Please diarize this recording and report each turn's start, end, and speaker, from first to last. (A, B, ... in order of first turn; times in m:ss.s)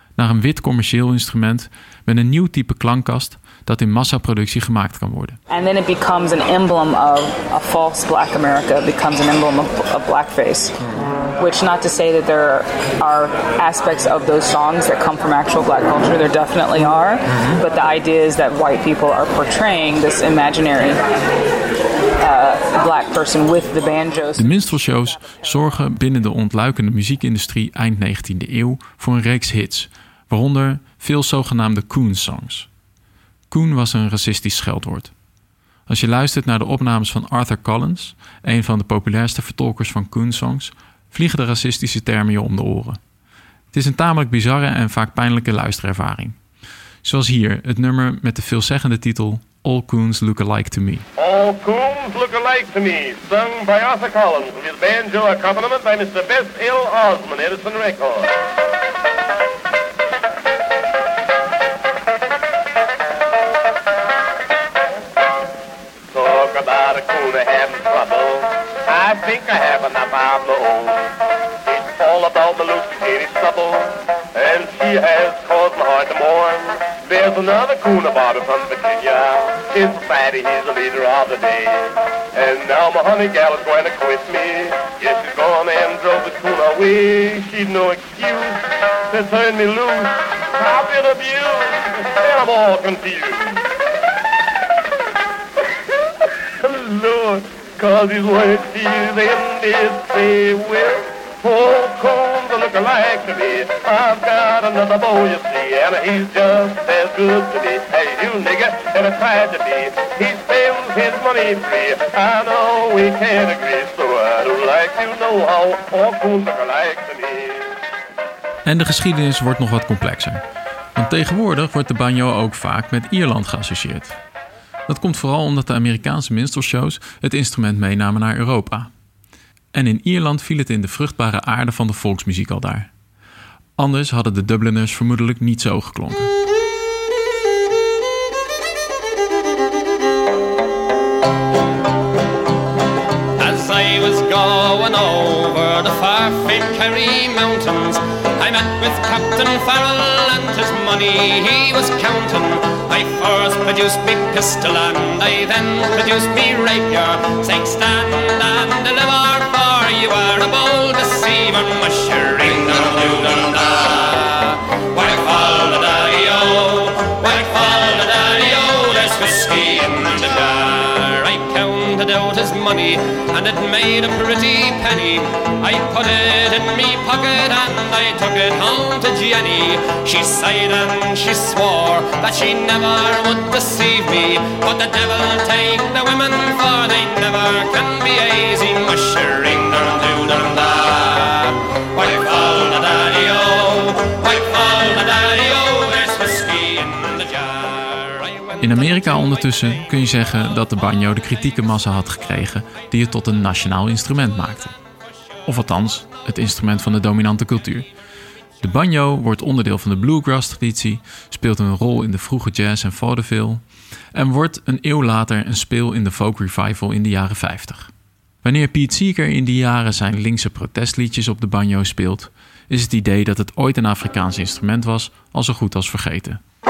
0:00.2-0:05.4 A
0:05.5-0:10.7 B
0:11.4-0:21.0 B
0:22.2-0:24.5 B
0:24.4-0:32.7 A
0:25.2-0:25.4 B
0:33.5-0:35.1 A
0:35.9-0:43.0 A
0:43.7-0:46.4 A
0:47.0-0:51.1 A
0:51.2-0:58.4 C
1:06.1-1:33.7 C
1:36.6-1:57.8 C
1:58.6-2:00.4 A
2:01.0-2:04.2 A
2:04.9-2:08.9 A
2:09.7-2:12.9 A
2:13.8-2:16.3 A
2:23.4-3:18.9 D
3:18.6-3:24.8 A
3:25.5-3:27.9 A
3:28.6-3:37.9 A
3:38.4-3:46.4 A